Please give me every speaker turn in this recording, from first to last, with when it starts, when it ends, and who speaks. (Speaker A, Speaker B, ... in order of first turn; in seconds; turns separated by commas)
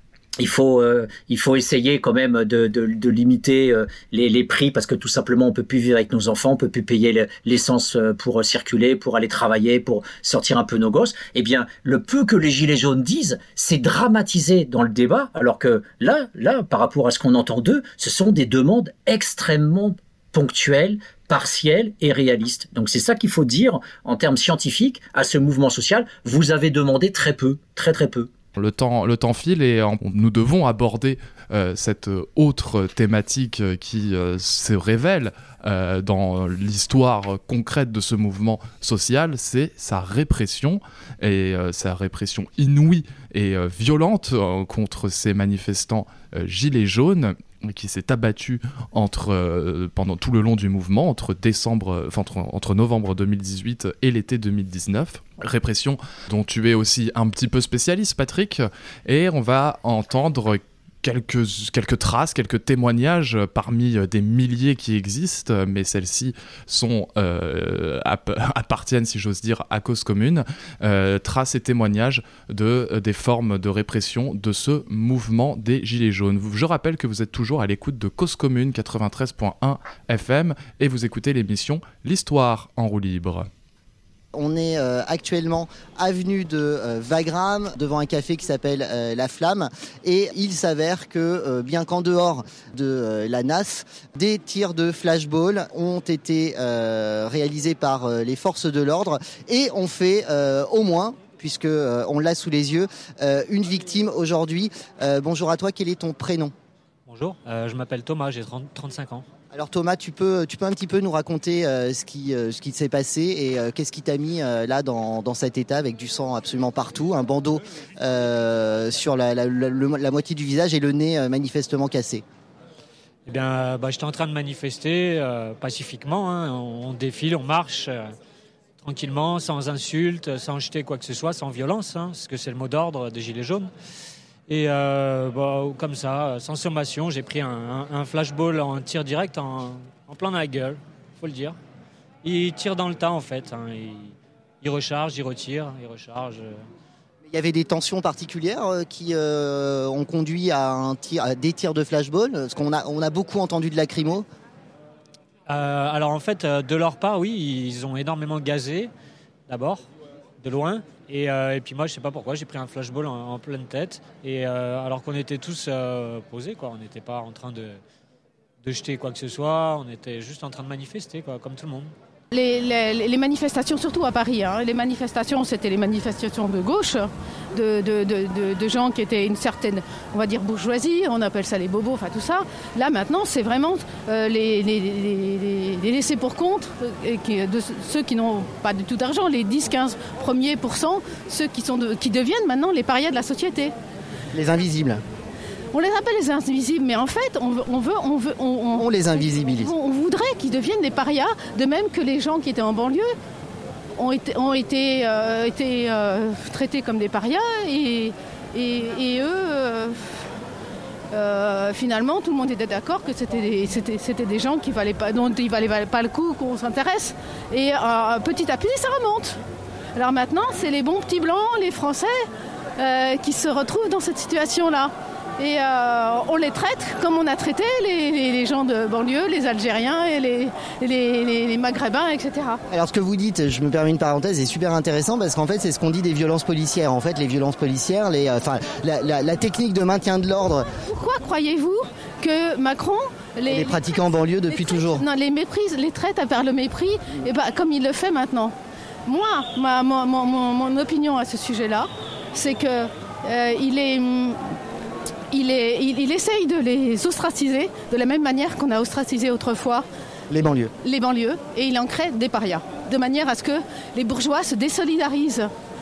Speaker A: 0.4-28.3, Speaker B: 28.6-83.5, Speaker C: 84.3-106.5, Speaker D: 107.1-109.3, Speaker C: 109.5-122.2, Speaker D: 123.3-128.2, Speaker D: 128.8-133.7, Speaker D: 134.5-141.6, Speaker D: 142.2-146.7, Speaker C: 147.3-154.3, Speaker D: 155.5-158.9, Speaker D: 159.5-159.8, Speaker D: 160.4-167.8, Speaker D: 168.6-171.9, Speaker E: 172.3-193.7, Speaker C: 194.3-195.0, Speaker E: 195.7-203.1, Speaker C: 198.8-199.7, Speaker E: 204.0-210.0, Speaker E: 211.1-219.4, Speaker E: 219.9-222.2, Speaker E: 222.8-232.6, Speaker C: 232.7-240.7, Speaker E: 240.9-243.9, Speaker C: 243.5-245.1, Speaker E: 244.5-248.5, Speaker E: 249.1-254.4, Speaker E: 255.3-259.9, Speaker C: 260.3-260.7, Speaker E: 260.8-265.5